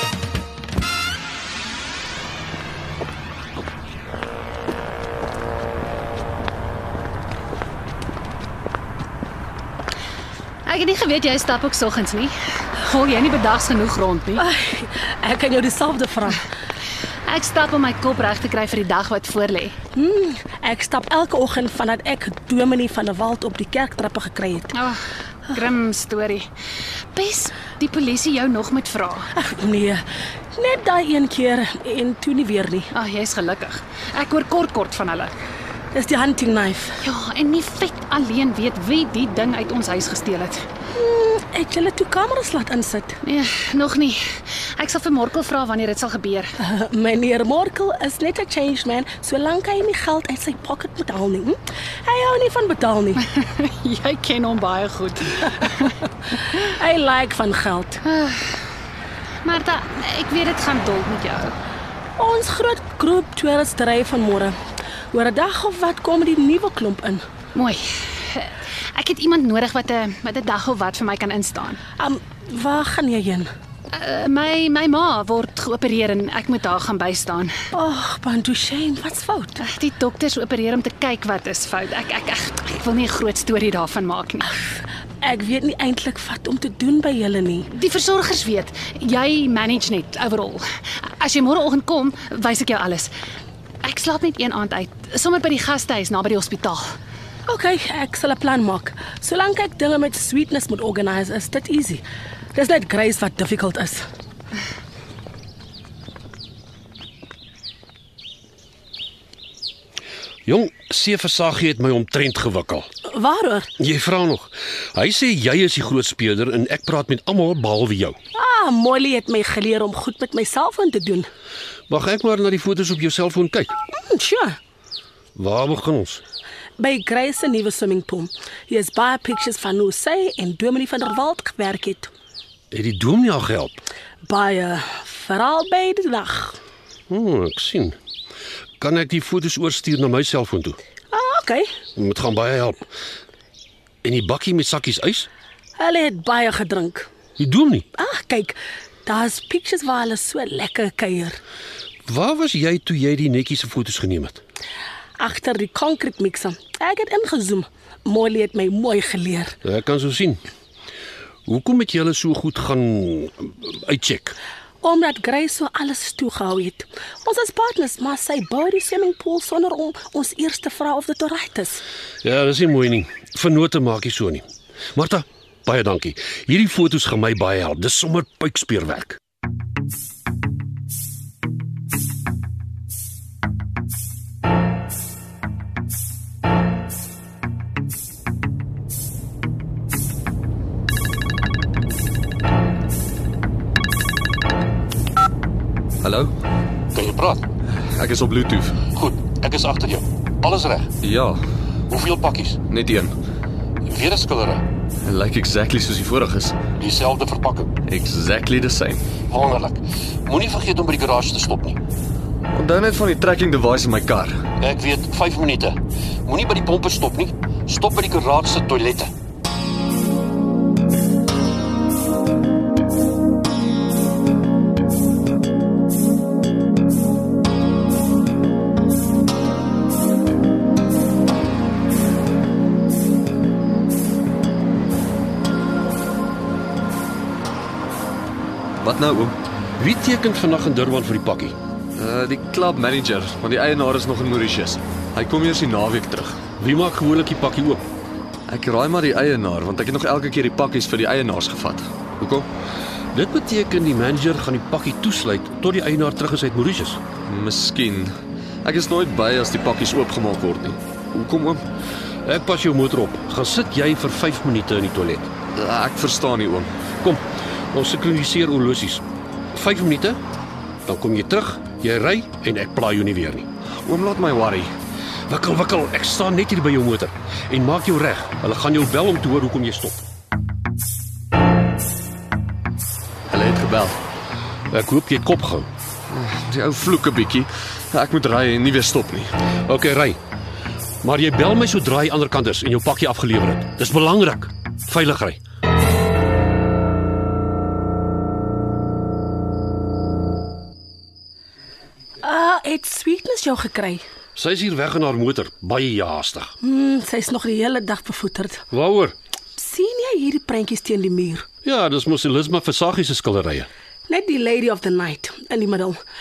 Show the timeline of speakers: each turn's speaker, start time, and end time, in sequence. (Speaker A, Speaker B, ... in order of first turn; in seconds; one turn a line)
Speaker A: 10.7-14.5
Speaker B: 14.4-16.4
Speaker A: 17.3-19.8
Speaker B: 19.9-24.7
Speaker A: 24.7-26.5
Speaker A: 27.1-29.3
Speaker B: 29.4-32.9
Speaker A: 32.9-35.3
Speaker B: 35.9-37.0
Speaker A: 37.0-40.6
Speaker B: 40.9-43.2
Speaker A: 43.2-46.6
Speaker B: 46.6-53.2
Speaker A: 53.2-56.0
Speaker B: 56.3-58.0
Speaker A: 58.0-58.5
Speaker A: 59.4-61.5
Speaker B: 62.2-64.6
Speaker B: 65.1-67.2
Speaker A: 67.5-71.8
Speaker B: 72.0-73.5
Speaker A: 73.9-77.5
Speaker B: 77.7-79.6
Speaker A: 79.6-84.5
Speaker B: 85.2-87.7
Speaker A: 87.7-90.6
Speaker A: 91.2-93.1
Speaker A: 93.8-96.8
Speaker B: 97.5-102.0
Speaker B: 102.5-104.0
Speaker C: 110.5-112.9
Speaker B: 113.1-113.7
Speaker C: 113.8-118.2
Speaker B: 118.3-121.3
Speaker C: 121.9-123.8
Speaker B: 123.9-124.6
Speaker C: 125.4-126.2
Speaker B: 126.8-132.1
Speaker C: 132.7-133.8
Speaker B: 134.2-136.6
Speaker C: 137.1-138.0
Speaker C: 138.8-140.8
Speaker B: 141.1-141.7
Speaker C: 142.0-142.8
Speaker C: 144.0-145.3
Speaker B: 145.8-147.1
Speaker C: 147.4-147.9
Speaker B: 147.9-151.4
Speaker C: 152.1-154.4
Speaker B: 155.2-159.6
Speaker C: 159.7-160.4
Speaker C: 161.5-164.4
Speaker B: 164.8-171.8
Speaker C: 172.2-179.2
Speaker D: 196.0-196.3
Speaker E: 197.0-197.4
Speaker D: 197.8-198.9
Speaker E: 198.9-200.9
Speaker D: 201.0-201.4
Speaker E: 201.9-202.6
Speaker D: 202.6-203.2
Speaker E: 203.9-204.6
Speaker D: 205.0-206.8
Speaker E: 206.8-207.7
Speaker D: 207.8-209.3
Speaker E: 209.3-211.8
Speaker D: 212.5-214.5
Speaker E: 214.6-219.1
Speaker D: 238.8-239.4
Speaker C: 239.8-241.6
Speaker D: 242.0-246.4
Speaker C: 246.6-247.8
Speaker D: 248.5-252.5
Speaker C: 253.1-257.0
Speaker D: 257.2-258.1
Speaker D: 258.6-261.6
Speaker C: 262.2-265.3
Speaker D: 265.6-266.7
Speaker C: 267.0-270.2
Speaker C: 270.9-273.5
Speaker D: 273.8-274.7
Speaker C: 275.3-280.1
Speaker D: 283.3-284.0
Speaker C: 284.7-285.7
Speaker D: 286.1-289.3
Speaker C: 289.7-290.2
Speaker C: 291.0-295.4
Speaker B: 302.2-304.1
Speaker C: 304.4-306.5
Speaker B: 306.6-308.7
Speaker C: 308.7-309.1
Speaker B: 309.6-311.5
Speaker C: 311.6-313.7
Speaker B: 314.1-316.0